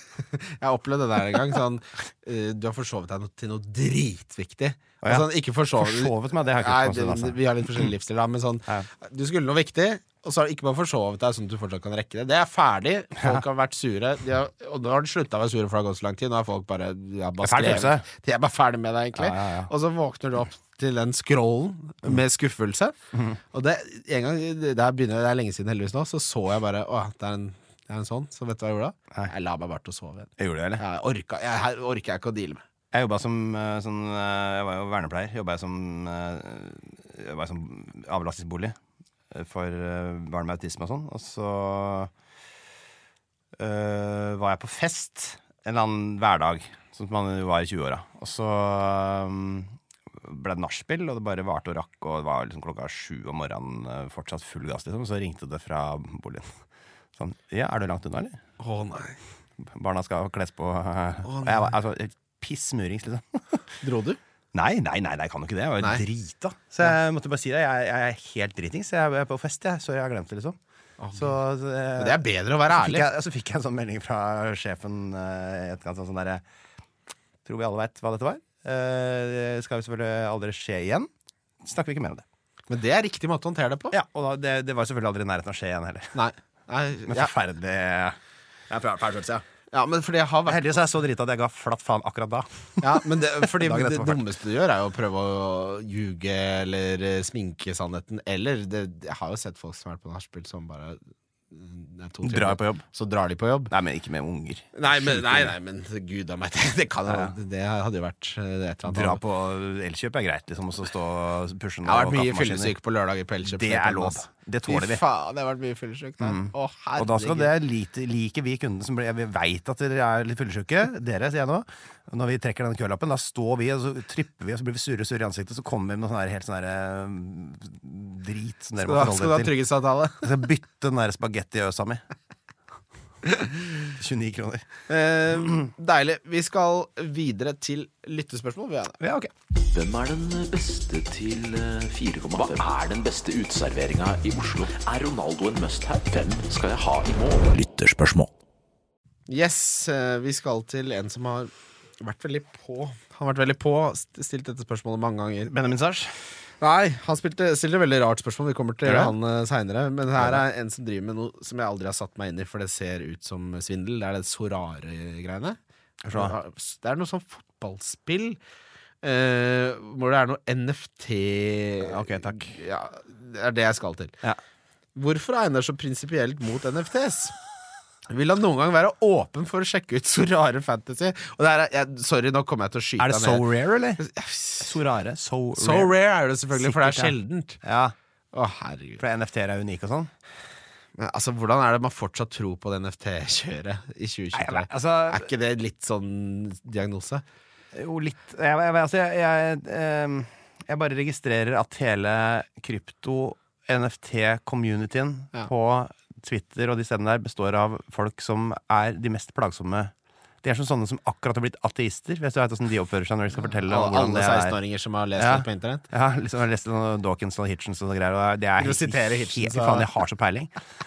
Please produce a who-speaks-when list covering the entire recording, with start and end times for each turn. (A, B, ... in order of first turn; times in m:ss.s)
0:00.3-0:22.9 A
0:05.0-0:07.9 B
0:17.4-0:18.0 B
0:19.1-0:19.7 B
0:23.1-0:23.4 B
0:23.5-0:32.6 A
0:30.4-0:30.8 B
0:32.9-0:38.8 B
0:39.3-0:42.1 B
0:43.6-0:56.5 B
0:57.2-0:58.4 B
0:58.6-0:59.2 A
0:59.6-1:03.8 B
1:01.2-1:01.7 A
1:03.8-1:04.2 A
1:04.5-1:10.6 B
1:11.0-1:11.4 A
1:11.1-1:16.4 B
1:12.0-1:13.0 A
1:17.4-1:21.1 B
1:21.6-1:22.2 B
1:22.7-1:24.0 A
1:23.9-1:26.1 B
1:26.1-1:27.3 A
1:27.0-1:28.2 B
1:28.7-1:29.4 B
1:29.7-1:30.7 A
1:30.4-1:34.2 B
1:32.8-1:43.7 A
1:42.2-1:42.8 B
1:43.7-1:45.6 B
1:44.7-1:49.2 A
1:47.1-1:47.3 B
1:48.9-1:52.7 B
1:51.8-1:57.5 A
1:53.4-1:55.0 B
1:56.2-2:09.5 B
2:08.8-2:10.3 A
2:10.2-2:12.0 B
2:13.8-2:14.7 B
2:14.9-2:19.0 A
2:19.0-2:19.3 B
2:19.6-2:28.3 C
2:29.3-2:35.5 A
2:35.5-2:36.1 B
2:36.6-2:45.6 A
2:38.8-2:39.1 B
2:40.2-2:40.4 B
2:46.0-2:46.3 B
2:46.1-2:48.4 A
2:49.0-2:54.2 A
2:51.8-2:52.6 B
2:55.0-2:57.4 A
2:58.1-3:03.5 A
3:03.0-3:04.0 B
3:04.0-3:04.7 A
3:04.6-3:05.9 B
3:05.6-3:07.6 A
3:06.5-3:07.9 B
3:08.3-3:09.0 A
3:09.0-3:10.1 B
3:11.0-3:17.2 A
3:14.3-3:15.3 B
3:17.7-3:34.6 B
3:33.6-3:35.8 A
3:35.2-3:40.5 B
3:38.6-3:39.9 A